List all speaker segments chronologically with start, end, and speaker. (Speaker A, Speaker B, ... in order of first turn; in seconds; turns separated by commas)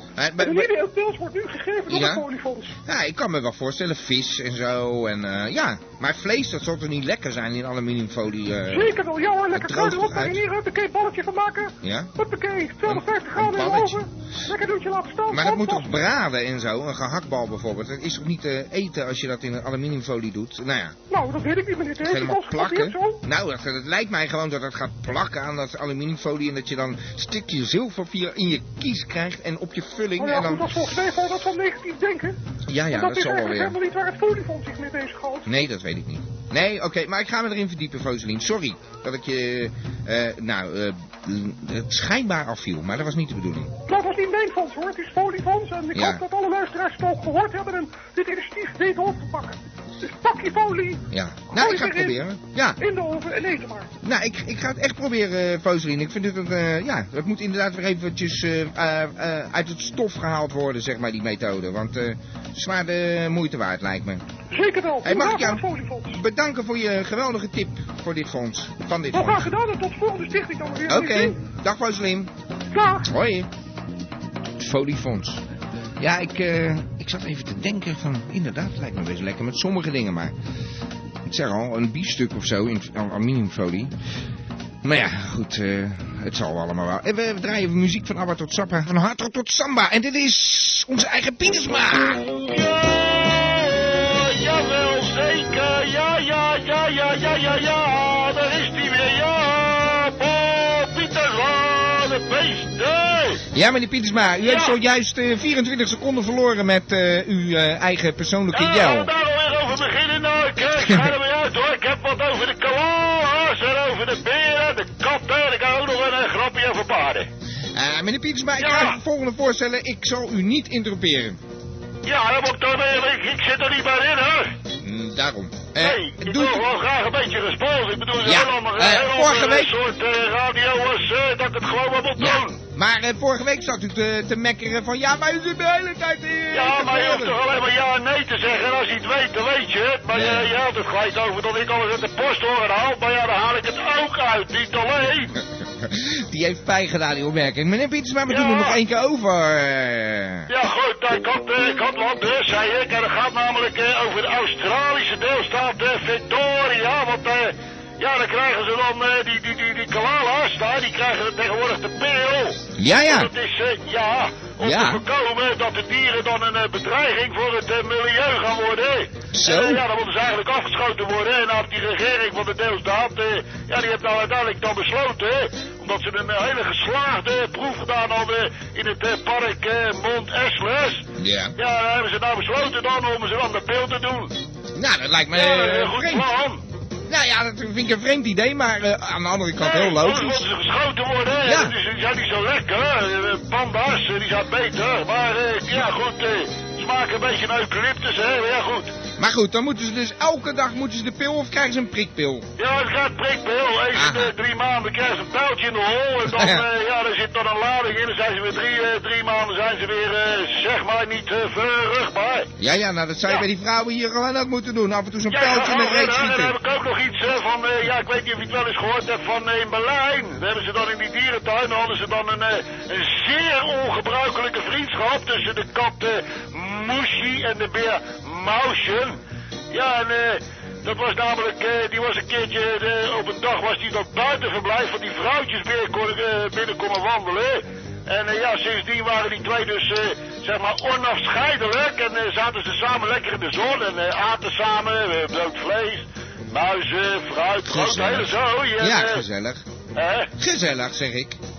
Speaker A: 0.2-0.7, Speaker B: 0.4-2.7, Speaker A: 1.9-2.3, Speaker A: 2.9-9.0, Speaker B: 8.7-15.9, Speaker A: 9.5-10.4, Speaker A: 11.8-12.1, Speaker A: 12.8-14.1, Speaker A: 15.3-21.0, Speaker B: 21.1-23.2, Speaker A: 22.0-30.7, Speaker B: 30.2-32.4, Speaker A: 32.7-33.8, Speaker B: 32.9-35.5, Speaker A: 35.5-43.7, Speaker B: 43.9-52.2, Speaker A: 45.9-46.2, Speaker A: 51.1-52.8, Speaker B: 52.8-53.9, Speaker A: 54.0-64.2, Speaker B: 64.5-66.2, Speaker A: 65.0-69.5, Speaker B: 69.1-71.4, Speaker A: 70.9-72.3, Speaker B: 72.7-73.1, Speaker A: 73.0-73.5, Speaker A: 74.6-75.4, Speaker A: 76.0-80.3, Speaker A: 81.2-83.9, Speaker A: 84.8-92.2, Speaker C: 92.4-103.4, Speaker A: 103.5-109.1, Speaker C: 104.4-104.7, Speaker C: 108.5-117.3, Speaker A: 110.8-111.1, Speaker A: 117.7-121.4, Speaker C: 118.6-119.0, Speaker C: 122.1-124.5, Speaker A: 124.8-126.7, Speaker C: 125.8-132.6, Speaker A: 128.2-129.7, Speaker A: 132.2-137.4, Speaker C: 136.5-145.3, Speaker A: 140.1-140.5, Speaker A: 145.8-150.5, Speaker C: 148.3-148.8, Speaker C: 150.5-184.3, Speaker A: 162.8-163.3, Speaker A: 164.6-165.0, Speaker A: 169.3-169.8, Speaker A: 181.2-181.5, Speaker A: 184.8-186.3, Speaker C: 185.3-186.6, Speaker A: 187.1-190.5, Speaker C: 189.6-198.9, Speaker A: 191.4-191.8, Speaker A: 199.2-202.5, Speaker C: 202.6-212.5, Speaker A: 203.9-204.3, Speaker A: 206.2-206.6, Speaker A: 212.6-216.6, Speaker C: 215.3-229.2, Speaker C: 229.7-249.2, Speaker A: 247.7-249.6, Speaker C: 250.0-250.3, Speaker A: 250.4-251.4